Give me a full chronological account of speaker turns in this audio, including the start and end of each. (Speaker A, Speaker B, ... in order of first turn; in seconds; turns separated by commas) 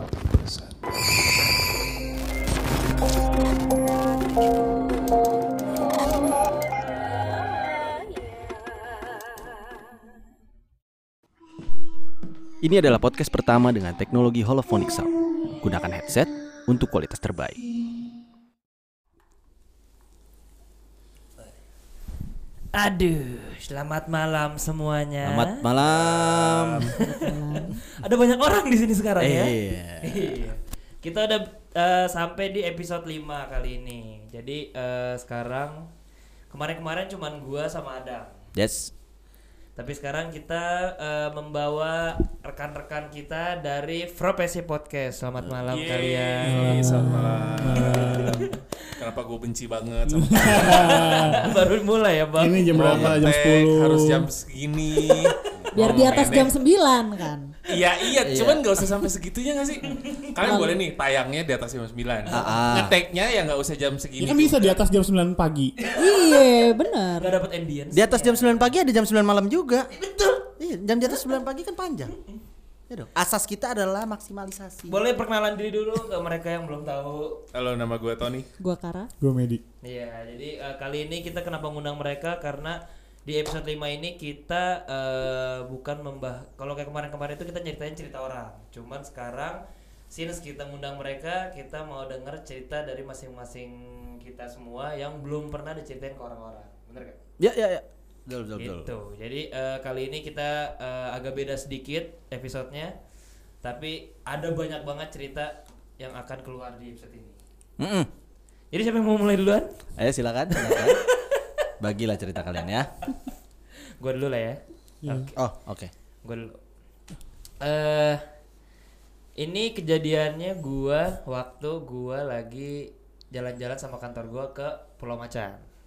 Speaker A: 0.2-0.7, Speaker B: 12.6-17.6, Speaker C: 22.7-35.9, Speaker B: 25.2-26.9, Speaker A: 26.0-26.8, Speaker D: 27.1-27.9, Speaker B: 29.2-30.4, Speaker C: 36.5-38.4, Speaker B: 38.5-38.9, Speaker C: 39.8-46.9, Speaker A: 45.7-51.5, Speaker E: 46.5-48.5, Speaker C: 47.7-48.5, Speaker E: 50.1-51.6, Speaker C: 50.5-52.8, Speaker E: 52.3-54.3, Speaker A: 52.7-56.5, Speaker B: 52.9-53.2, Speaker C: 55.0-55.5, Speaker D: 55.7-57.5, Speaker A: 57.6-64.8, Speaker B: 58.2-58.7, Speaker C: 59.9-60.3, Speaker D: 60.4-60.8, Speaker B: 62.3-63.0, Speaker E: 64.2-65.8, Speaker C: 65.8-66.4, Speaker D: 65.9-67.4, Speaker C: 67.2-68.8, Speaker B: 67.9-69.9, Speaker C: 69.9-70.5, Speaker B: 70.5-72.2, Speaker B: 72.9-75.0, Speaker C: 74.9-77.4, Speaker A: 77.5-78.5, Speaker D: 78.6-79.1, Speaker E: 79.2-79.6, Speaker C: 79.8-97.2, Speaker B: 97.4-98.9, Speaker C: 98.6-102.9, Speaker C: 103.6-107.4, Speaker B: 107.8-108.1, Speaker C: 108.7-109.7, Speaker B: 110.0-111.0, Speaker C: 110.6-111.7, Speaker B: 111.8-112.9, Speaker C: 114.0-115.3, Speaker E: 115.0-115.3, Speaker B: 115.3-115.9, Speaker C: 116.2-116.6, Speaker C: 117.6-118.2, Speaker C: 119.4-125.6